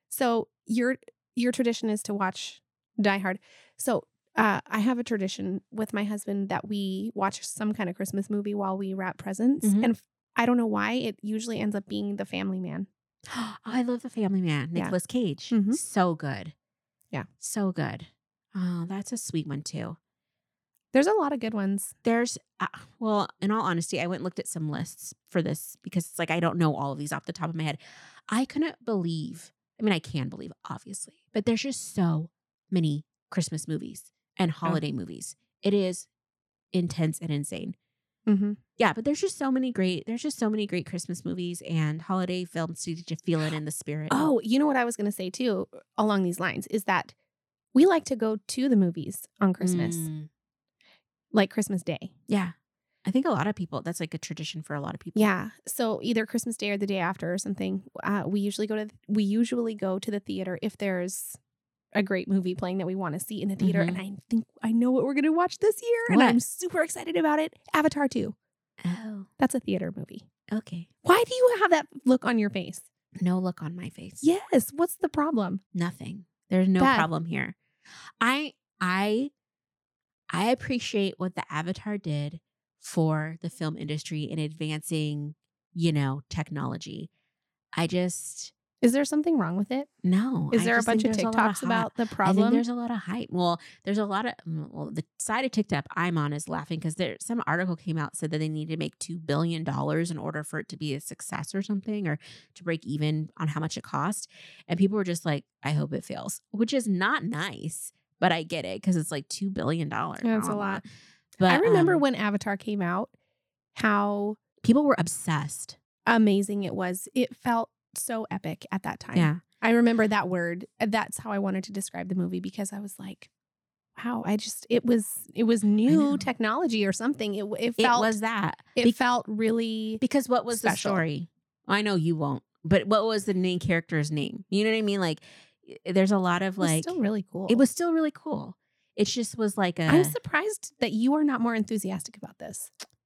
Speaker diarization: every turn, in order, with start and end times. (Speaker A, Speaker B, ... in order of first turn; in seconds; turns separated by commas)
Speaker A: 0.1-12.9, Speaker B: 9.6-9.9, Speaker B: 13.3-16.5, Speaker A: 15.5-15.8, Speaker B: 17.4-20.0, Speaker A: 20.9-21.9, Speaker B: 22.0-36.1, Speaker B: 36.7-37.8, Speaker A: 38.3-38.6, Speaker B: 38.8-44.3, Speaker A: 44.1-47.1, Speaker A: 47.8-50.1, Speaker B: 49.6-50.3, Speaker A: 51.3-52.1, Speaker B: 52.3-55.3, Speaker A: 55.2-61.4, Speaker A: 62.0-68.4, Speaker B: 63.6-64.0, Speaker B: 66.1-66.4, Speaker B: 68.8-69.3, Speaker A: 69.4-70.3, Speaker B: 70.5-70.9, Speaker A: 71.0-72.9, Speaker B: 73.2-74.2, Speaker A: 74.2-75.6, Speaker B: 75.8-77.6, Speaker A: 76.8-77.1, Speaker B: 78.2-79.3, Speaker B: 80.3-87.1, Speaker B: 87.8-88.5, Speaker A: 88.8-89.9, Speaker B: 90.0-110.9, Speaker A: 90.5-92.6, Speaker A: 110.2-110.8, Speaker B: 111.4-112.0, Speaker A: 111.5-113.1, Speaker A: 113.8-114.4, Speaker B: 114.6-115.8, Speaker A: 116.1-123.3, Speaker B: 119.1-119.4, Speaker A: 124.0-128.2, Speaker B: 125.9-126.2, Speaker B: 127.8-129.0, Speaker A: 128.8-131.0, Speaker B: 130.0-137.0, Speaker A: 136.6-137.6, Speaker B: 137.5-140.2, Speaker A: 139.9-142.7